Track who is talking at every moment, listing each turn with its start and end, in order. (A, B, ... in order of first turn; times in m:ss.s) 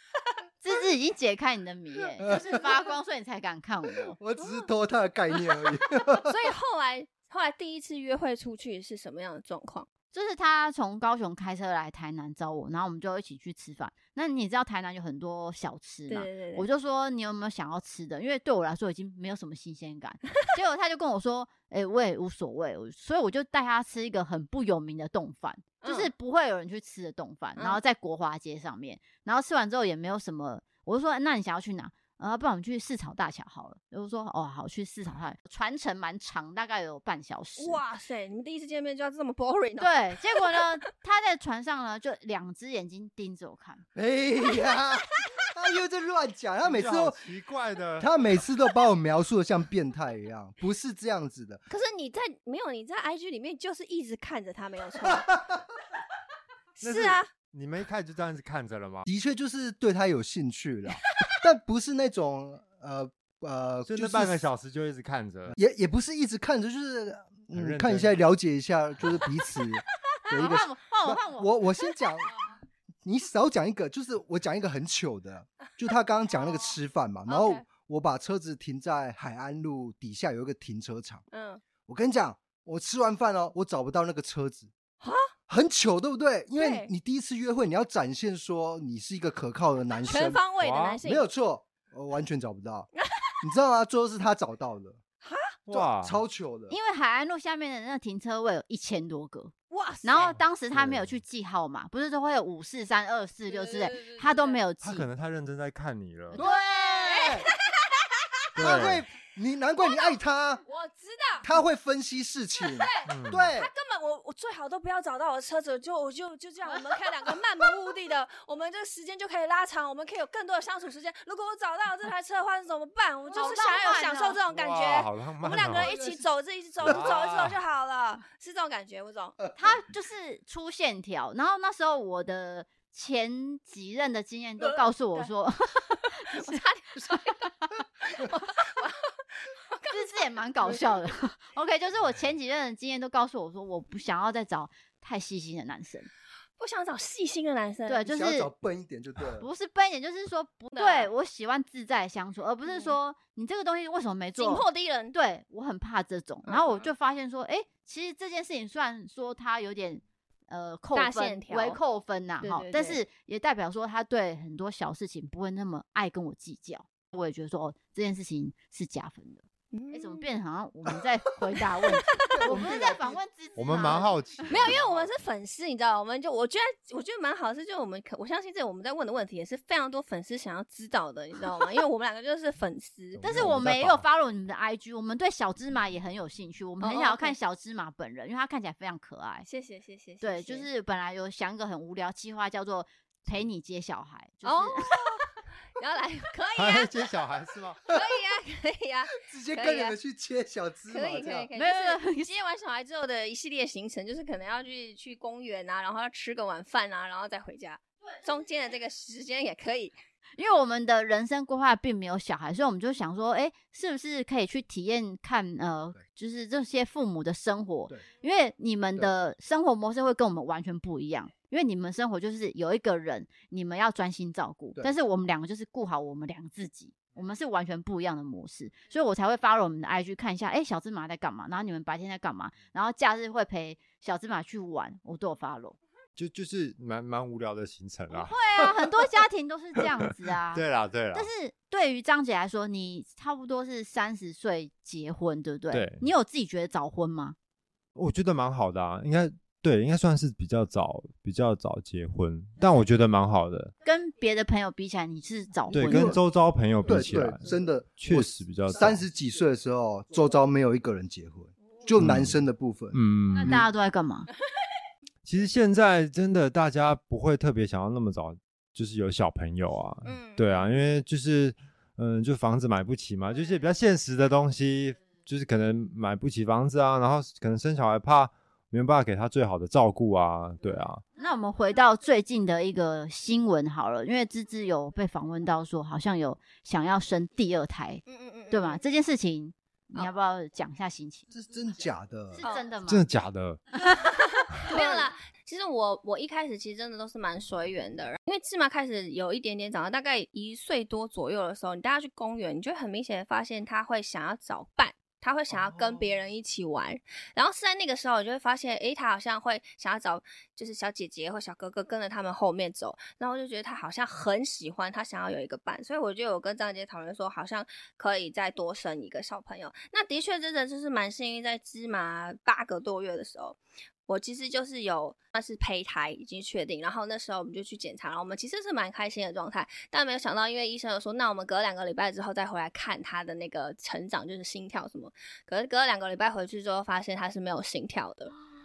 0:00.6-0:04.2 A
0:02.2-0:02.6 B
0:02.3-0:02.6 C
0:04.1-0:06.4 B
0:04.4-0:04.7 C
0:06.2-0:09.9 C
0:10.1-0:37.8 A
0:16.1-0:16.6 C
0:25.8-0:26.1 C
0:37.6-0:40.6 C
0:39.8-0:43.8 A
0:43.9-0:47.2 B
0:46.6-0:48.1 D
0:48.0-0:51.6 B
0:51.7-0:55.3 C
0:55.0-0:55.6 B
0:56.8-0:57.3 C
0:56.8-0:59.0 D
0:59.0-1:04.4 B
1:03.8-1:05.6 D
1:05.5-1:12.3 B
1:07.5-1:08.1 D
1:10.3-1:11.5 A
1:13.0-1:21.2 B
1:17.3-1:17.6 C
1:21.3-1:21.6 C
1:21.8-1:24.7 B
1:25.0-1:25.3 C
1:25.5-1:30.4 B
1:26.6-1:26.9 C
1:30.0-1:31.2 C
1:30.6-1:31.0 D
1:31.0-1:32.9 B
1:33.0-1:33.4 C
1:33.4-1:35.0 B
1:35.2-1:35.5 C
1:35.7-1:36.2 D
1:35.7-1:36.7 B
1:36.7-1:45.1 A
1:39.7-1:40.3 C
1:40.7-1:41.1 D
1:43.5-1:44.6 C
1:44.8-1:46.4 D
1:46.3-1:47.5 B
1:46.4-1:48.9 C
1:46.4-1:47.1 A
1:48.6-1:49.0 D
1:48.6-1:50.6 B
1:49.8-1:51.5 C
1:51.4-1:53.7 B
1:52.6-2:09.4 C
1:53.1-1:53.5 D
2:03.3-2:04.4 A
2:04.5-2:05.9 D
2:05.6-2:06.3 B
2:06.8-2:07.6 D
2:09.6-2:16.6 A
2:16.3-2:17.5 C
2:18.0-2:20.8 C
2:19.9-2:26.1 A
2:26.6-2:28.1 C
2:27.9-2:28.5 A
2:28.0-2:29.4 B
2:29.4-2:54.4 A
2:30.7-2:31.1 C
2:32.7-2:33.0 C
2:34.4-2:35.2 C
2:36.4-2:36.9 C
2:40.9-2:41.8 C
2:42.4-2:43.0 C
2:49.7-2:50.2 C
2:52.2-2:53.2 B
2:52.2-2:52.6 C
2:53.6-2:54.8 D
2:54.5-3:03.2 C
3:03.2-3:04.0 D
3:03.2-3:09.5 A
3:06.8-3:07.4 C
3:09.4-3:10.7 C
3:10.2-3:15.0 A
3:14.4-3:16.9 C
3:16.6-3:17.9 D
3:17.9-3:20.0 C
3:19.1-3:21.5 B
3:20.9-3:30.0 C
3:21.5-3:22.3 A
3:30.4-3:55.8 A
3:56.2-3:58.4 D
3:58.1-4:07.4 A
4:00.5-4:01.3 D
4:05.7-4:06.1 D
4:07.9-4:13.7 D
4:13.8-4:16.2 A
4:15.7-4:16.2 B
4:15.7-4:17.4 D
4:16.8-4:23.6 B
4:18.0-4:19.0 D
4:22.0-4:22.4 D
4:22.9-4:23.6 D
4:23.3-4:24.3 A
4:25.2-4:41.0 D
4:30.0-4:30.7 C
4:41.2-4:51.3 A
4:48.1-4:48.8 C
4:51.3-4:52.4 B
4:52.3-4:53.1 A
4:52.4-4:52.6 C
4:52.9-4:53.6 D
4:54.6-4:55.1 A
4:54.6-5:38.3 C
5:05.6-5:06.0 B